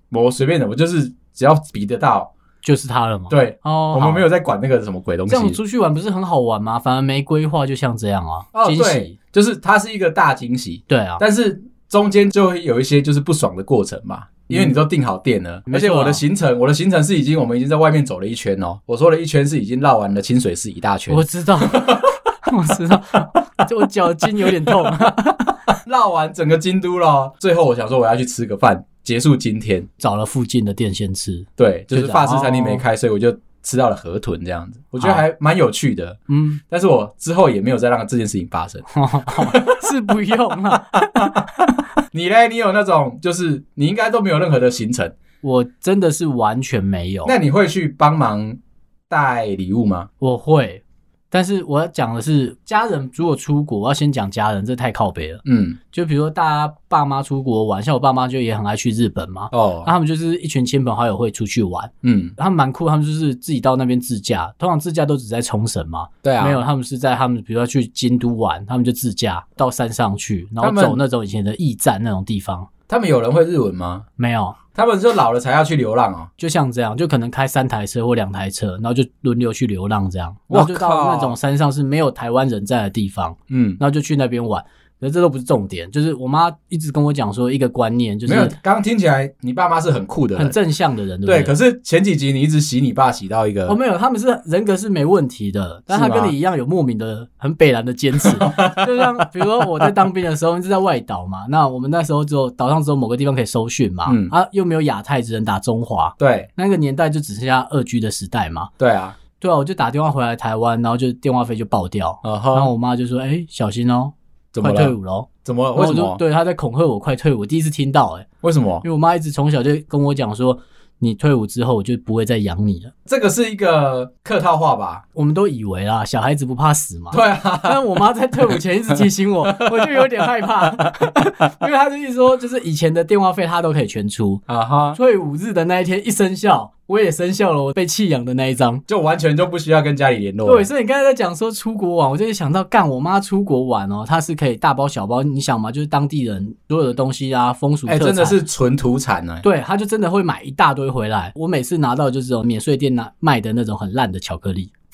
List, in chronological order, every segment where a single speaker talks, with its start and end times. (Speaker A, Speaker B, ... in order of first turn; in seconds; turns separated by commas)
Speaker A: 0.1-2.3, Speaker B: 2.6-4.3, Speaker A: 3.3-5.6, Speaker B: 5.3-9.1, Speaker A: 8.5-22.3, Speaker B: 10.9-11.2, Speaker B: 15.7-16.2, Speaker B: 21.1-25.6, Speaker A: 24.4-25.1, Speaker A: 25.7-29.9, Speaker B: 30.0-32.8, Speaker A: 31.6-39.9, Speaker B: 36.3-36.6, Speaker B: 38.9-41.3, Speaker A: 41.0-45.1, Speaker B: 45.4-47.3, Speaker A: 47.2-50.1, Speaker B: 50.2-72.7, Speaker A: 55.4-55.8, Speaker A: 59.5-59.9, Speaker A: 62.0-62.4, Speaker A: 66.2-66.6, Speaker A: 70.6-71.0, Speaker A: 72.9-74.0, Speaker B: 74.2-74.6, Speaker A: 74.7-76.3, Speaker B: 76.4-88.5, Speaker A: 80.5-81.3, Speaker A: 83.5-83.8, Speaker A: 88.3-90.5, Speaker B: 90.4-91.5, Speaker A: 91.2-93.8, Speaker B: 93.7-108.7, Speaker A: 95.9-96.3, Speaker A: 98.2-99.1, Speaker A: 104.0-104.3, Speaker A: 106.2-106.5, Speaker A: 108.8-109.2, Speaker B: 109.4-118.3, Speaker A: 112.2-112.7, Speaker A: 114.5-116.2, Speaker A: 118.4-118.8, Speaker B: 118.8-122.9, Speaker A: 123.0-125.0, Speaker B: 125.1-134.4, Speaker A: 127.1-127.8, Speaker A: 129.6-130.1, Speaker A: 134.5-135.0, Speaker B: 134.9-138.8, Speaker A: 138.9-140.7, Speaker B: 140.4-148.4, Speaker A: 147.9-149.4, Speaker B: 149.4-154.7